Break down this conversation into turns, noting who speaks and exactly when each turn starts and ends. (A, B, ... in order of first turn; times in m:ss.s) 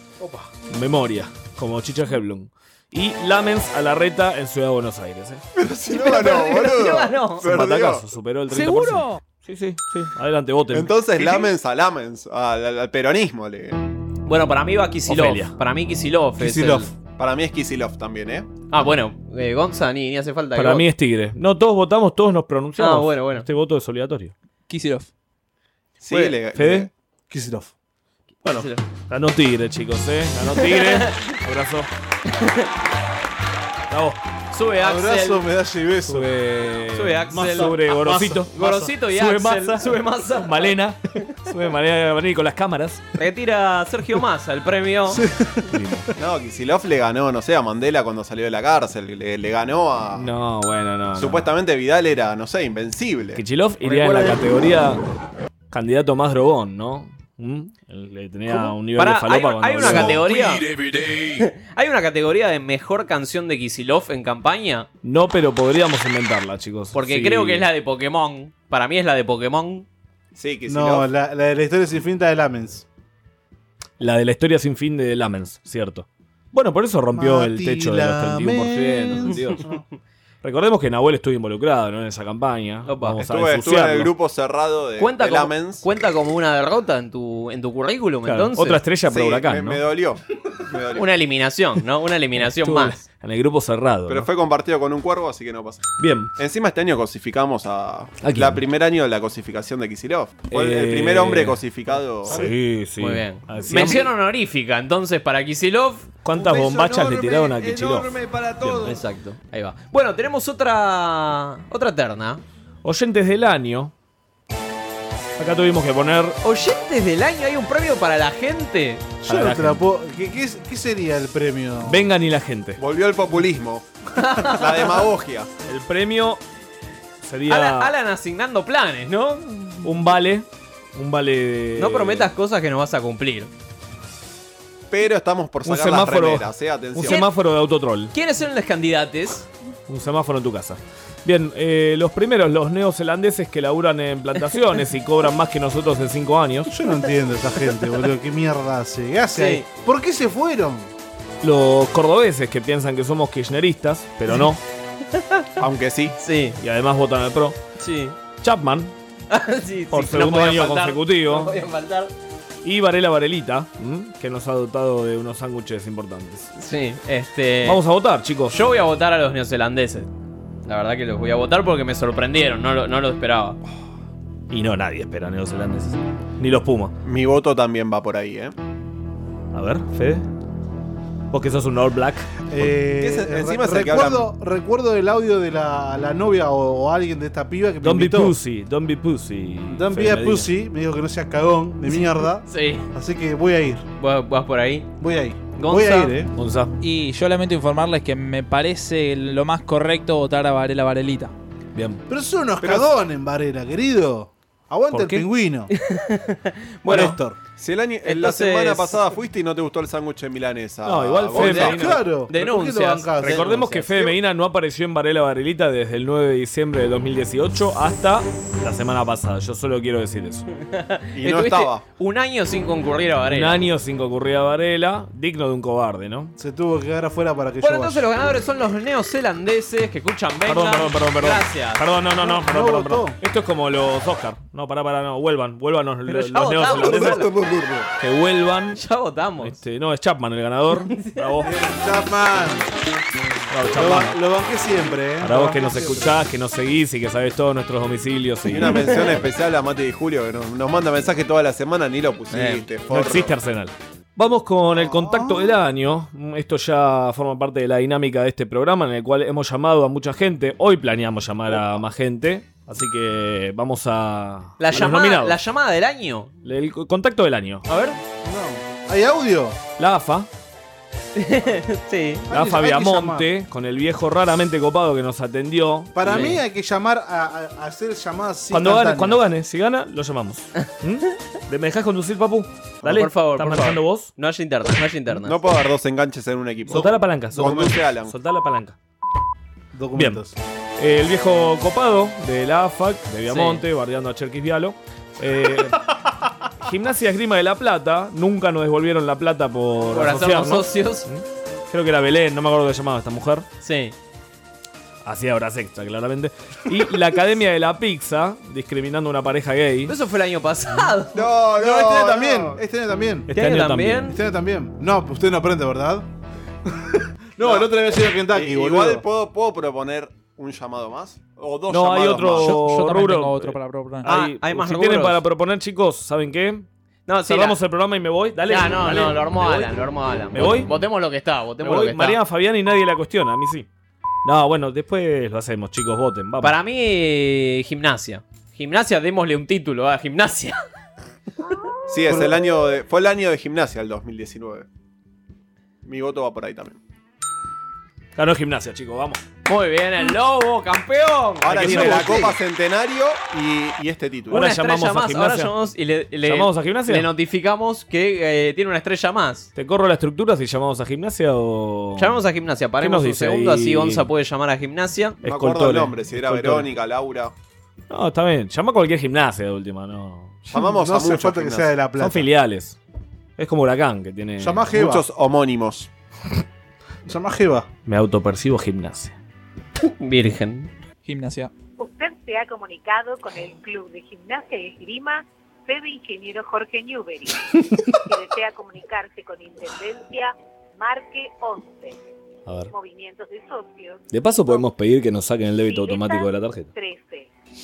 0:00.2-0:00.5 A
0:00.7-0:05.4 B
0:05.6-0:08.0 C
0:05.9-0:07.5 D
0:07.4-0:11.0 B
0:08.6-0:09.0 E
0:10.7-0:13.8 C
0:11.2-0:11.5 D
0:14.3-0:16.9 D
0:15.1-0:15.6 B
0:16.4-0:16.9 A
0:17.2-0:18.5 C
0:18.7-0:20.9 D
0:20.6-0:24.3 B
0:22.8-0:23.5 D
0:24.7-0:25.1 E
0:26.0-0:26.9 C
0:26.1-0:26.4 D
0:26.5-0:26.9 B
0:27.3-0:27.7 A
0:28.4-0:28.8 D
0:28.4-0:31.9 B
0:30.6-0:31.2 D
0:32.3-0:32.7 D
0:33.9-0:34.2 B
0:34.5-0:35.4 D
0:34.8-0:36.3 A
0:36.1-0:43.0 B
0:36.9-0:37.8 D
0:37.3-0:38.5 A
0:38.4-0:40.7 D
0:43.2-0:45.2 D
0:45.1-0:45.8 A
0:45.7-0:46.1 B
0:46.2-0:50.3 C
0:50.2-0:51.5 B
0:51.2-0:53.4 C
0:53.4-0:55.0 B
0:53.8-0:54.4 D
0:55.7-1:00.3 B
0:58.5-1:04.9 D
1:05.0-1:07.7 B
1:06.9-1:09.9 D
1:10.4-1:11.1 C
1:10.7-1:12.9 A
1:14.0-1:19.7 B
1:17.1-1:19.8 A
1:20.4-1:24.1 B
1:22.9-1:23.2 D
1:23.2-1:25.8 C
1:25.0-1:28.8 D
1:28.2-1:29.8 B
1:29.1-1:31.1 C
1:31.0-1:33.0 D
1:32.4-1:34.3 B
1:34.1-1:42.4 C
1:36.0-1:36.3 B
1:38.2-1:38.6 B
1:40.5-1:41.6 B
1:42.2-1:44.1 B
1:42.3-1:46.1 D
1:46.2-1:49.0 B
1:46.4-1:48.7 C
1:48.8-1:52.4 D
1:52.8-1:53.9 B
1:55.4-1:56.4 B
1:56.4-1:59.1 D
1:59.2-2:02.1 A
1:59.3-1:59.8 B
2:01.8-2:02.8 B
2:02.8-2:05.5 C
2:04.2-2:05.0 D
2:05.6-2:06.4 B
2:07.2-2:07.9 B
2:07.5-2:09.9 D
2:09.8-2:12.3 B
2:11.8-2:13.5 D
2:14.9-2:17.2 C
2:15.6-2:18.1 B
2:18.1-2:19.5 D
2:19.9-2:26.7 B
2:26.7-2:30.9 A
2:29.4-2:29.6 D
2:31.4-2:34.6 B
2:35.1-2:35.5 D
2:35.6-2:36.2 C
2:36.2-2:36.6 D
2:36.6-2:37.6 B
2:37.8-2:38.2 D
2:38.4-2:38.9 B
2:39.3-2:42.1 D
2:39.9-2:41.6 B
2:42.6-2:46.5 B
2:46.6-2:47.8 D
2:47.6-2:48.6 B
2:48.5-2:50.1 D
2:50.7-2:53.6 D
2:54.5-2:56.9 B
2:57.0-2:58.6 C
2:59.5-3:00.3 B
3:01.3-3:02.5 B
3:02.5-3:08.4 A
3:02.8-3:04.3 C
3:07.8-3:10.5 B
3:09.7-3:13.9 A
3:12.4-3:12.9 D
3:14.0-3:14.9 D
3:15.0-3:16.3 A
3:15.6-3:16.2 D
3:16.4-3:16.7 B
3:16.8-3:21.3 E
3:21.8-3:22.0 B
3:22.1-3:25.7 A
3:24.9-3:25.3 B
3:25.7-3:27.2 D
3:26.8-3:27.4 A
3:27.6-3:31.8 C
3:28.0-3:29.0 D
3:30.8-3:32.0 B
3:31.4-3:34.1 D
3:31.4-3:33.7 A
3:33.2-3:40.5 B
3:40.6-3:43.6 D
3:41.2-3:41.8 C
3:43.3-3:46.4 B
3:46.4-3:48.1 A
3:47.6-3:51.8 D
3:50.5-3:57.3 B
3:52.2-3:53.2 A
3:56.1-3:57.3 D
3:56.7-3:57.9 C
3:58.0-3:58.8 B
3:58.7-3:59.6 D
3:59.4-4:01.5 B
4:00.9-4:01.3 D
4:01.4-4:02.7 A
4:03.5-4:04.2 B
4:03.7-4:06.2 A
4:05.2-4:09.0 B
4:08.5-4:13.4 C
4:08.6-4:09.0 D
4:12.3-4:12.6 D
4:12.9-4:25.4 B
4:14.7-4:15.6 A
4:24.6-4:26.3 D
4:26.4-4:27.7 B
4:27.7-4:28.0 D
4:28.2-4:29.6 A
4:29.8-4:30.3 B
4:31.2-4:32.3 D
4:32.3-4:33.3 A
4:32.3-4:36.4 B
4:36.0-4:39.2 A
4:36.0-4:36.4 D
4:38.5-4:44.1 B
4:42.8-4:45.4 D
4:45.2-4:48.1 C
4:46.7-4:48.8 B
4:46.7-4:47.6 A
4:49.7-4:50.4 A
4:50.0-4:50.2 B
4:50.8-4:55.9 B
4:53.3-4:53.6 D
4:56.6-5:03.5 B
4:59.9-5:01.1 D
5:03.6-5:03.9 D
5:05.0-5:09.9 B
5:09.9-5:11.2 D
5:11.1-5:12.6 C
5:11.4-5:13.3 A
5:13.3-5:14.2 B
5:13.3-5:14.2 D
5:14.1-5:16.1 A
5:16.6-5:19.0 A
5:17.4-5:17.7 C
5:18.3-5:22.6 C
5:21.7-5:26.7 B
5:22.4-5:24.1 E
5:24.0-5:25.2 D
5:27.1-5:27.6 D
5:27.3-5:29.8 B
5:28.5-5:32.2 D
5:30.3-5:30.7 B
5:31.6-5:33.7 B
5:34.2-5:36.6 B
5:36.4-5:40.6 D
5:41.9-5:44.7 C
5:42.0-5:42.4 A
5:45.8-5:46.8 C
5:48.2-5:49.2 B
5:49.5-5:52.2 D
5:51.4-5:54.5 C
5:51.5-5:52.3 B
5:51.6-5:52.4 A
5:54.3-5:55.6 B
5:54.3-5:59.5 D
5:56.2-5:57.1 B
5:59.6-6:02.2 B
6:02.0-6:05.2 D
6:02.8-6:04.1 B
6:05.2-6:06.7 B
6:05.2-6:07.3 C
6:07.9-6:10.5 B
6:10.5-6:11.7 C
6:10.5-6:12.3 A
6:12.0-6:12.8 B
6:13.4-6:14.6 B
6:14.4-6:15.1 A
6:14.7-6:15.9 C
6:17.1-6:17.7 A
6:17.9-6:19.2 B
6:20.0-6:20.7 D
6:21.0-6:21.5 E
6:21.8-6:32.0 F
6:32.5-6:32.7 B
6:32.7-6:34.6 F
6:34.1-6:36.7 B
6:35.6-6:37.3 F